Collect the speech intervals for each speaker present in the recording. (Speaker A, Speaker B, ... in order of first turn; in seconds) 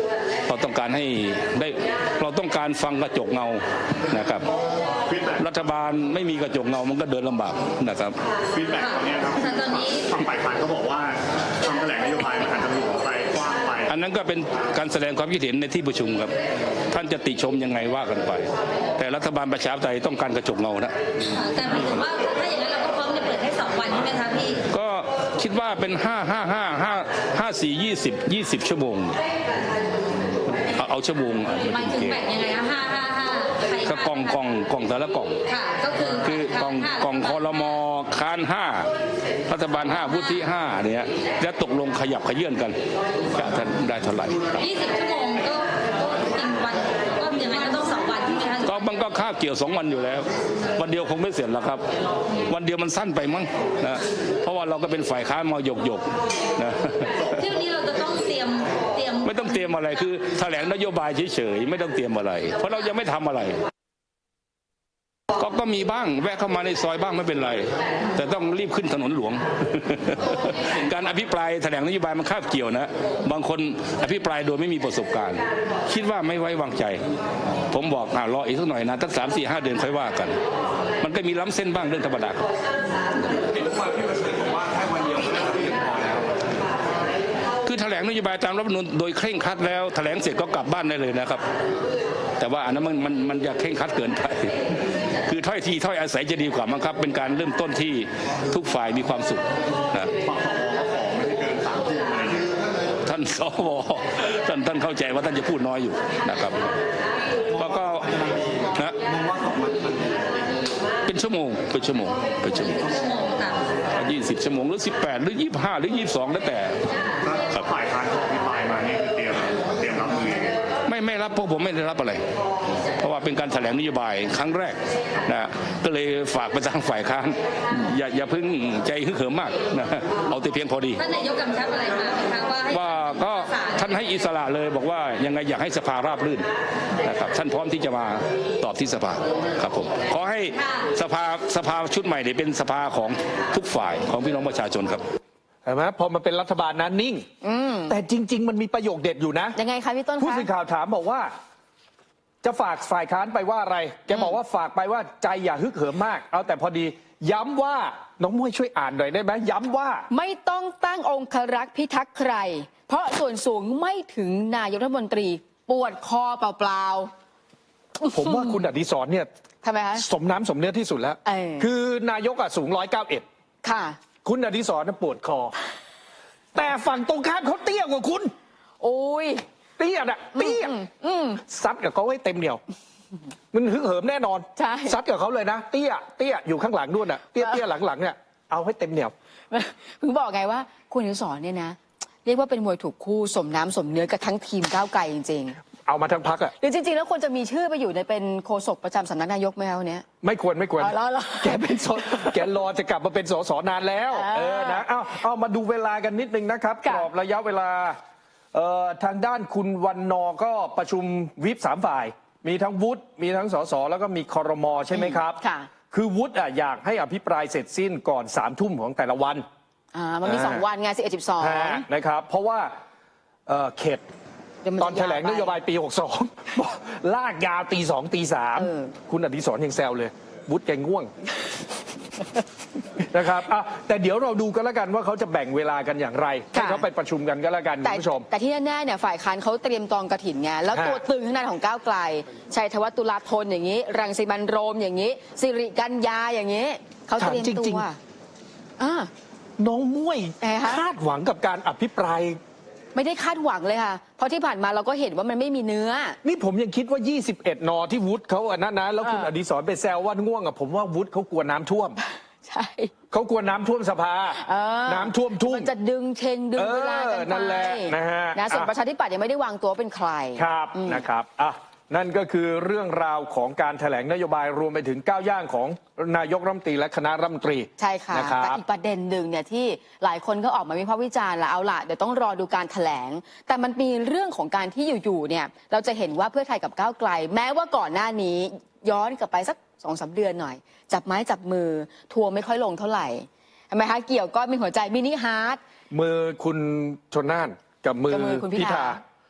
Speaker A: 0.5-4.5, 5.4-8.2, 13.9-16.3, 16.9-20.9, 24.7-29.2, 30.6-32.2, 33.8-35.4, 36.0-38.9, 39.5-42.8, 43.3-44.7, 48.6-50.2, 50.8-51.8, 52.5-57.5, 59.2-63.6, 65.4-77.0, 77.7-80.4, 81.0-82.5, 84.5-86.2, 87.6-91.4, 92.4-94.5, 95.3-100.1, 103.0-106.7, 107.5-109.1, 111.1-112.9, 114.0-116.8, 120.9-122.2, 123.0-131.1, 132.7-136.5, 137.0-145.0
Speaker B: 5.1-5.4, 8.5-13.9, 100.2-102.5, 109.2-110.1, 117.2-120.6
Speaker C: 8.7-10.2, 21.3-24.7, 31.7-34.4, 35.5-37.8, 40.0-40.4, 44.6-48.9, 57.4-59.8, 112.6-113.7, 131.0-133.9, 140.5-140.9
Speaker D: 145.7-147.2, 147.9-149.6, 150.2-151.3, 152.4-160.1, 168.1-169.3, 170.0-173.2, 174.2-175.5, 176.6-178.3, 179.8-180.7, 181.4-182.6, 183.5-189.1, 195.9-196.5, 200.2-208.0, 208.5-215.4, 215.9-219.4, 220.2-220.7, 221.4-222.7, 223.5-224.0, 224.8-231.1, 233.1-238.3, 240.7-241.0, 247.2-247.9, 249.6-252.4, 256.2-262.0, 263.1-265.7, 266.6-268.7, 270.4-278.6, 295.9-299.0
Speaker E: 147.4-148.0, 149.6-150.5, 154.1-154.4, 160.1-167.1, 168.0-168.6, 169.6-170.1, 171.2-171.7, 173.6-174.0, 178.8-179.4, 180.3-181.4, 184.6-185.0, 189.5-195.6, 196.6-200.1, 200.8-202.5, 204.1-204.8, 206.8-207.1, 214.9-215.7, 219.9-221.9, 224.6-225.6, 228.6-228.9, 236.5-236.9, 237.8-248.0, 248.8-249.1, 250.4-250.8, 252.9-256.2, 259.0-259.3, 262.4-262.9, 264.4-271.0, 277.8-295.6, 298.1-299.0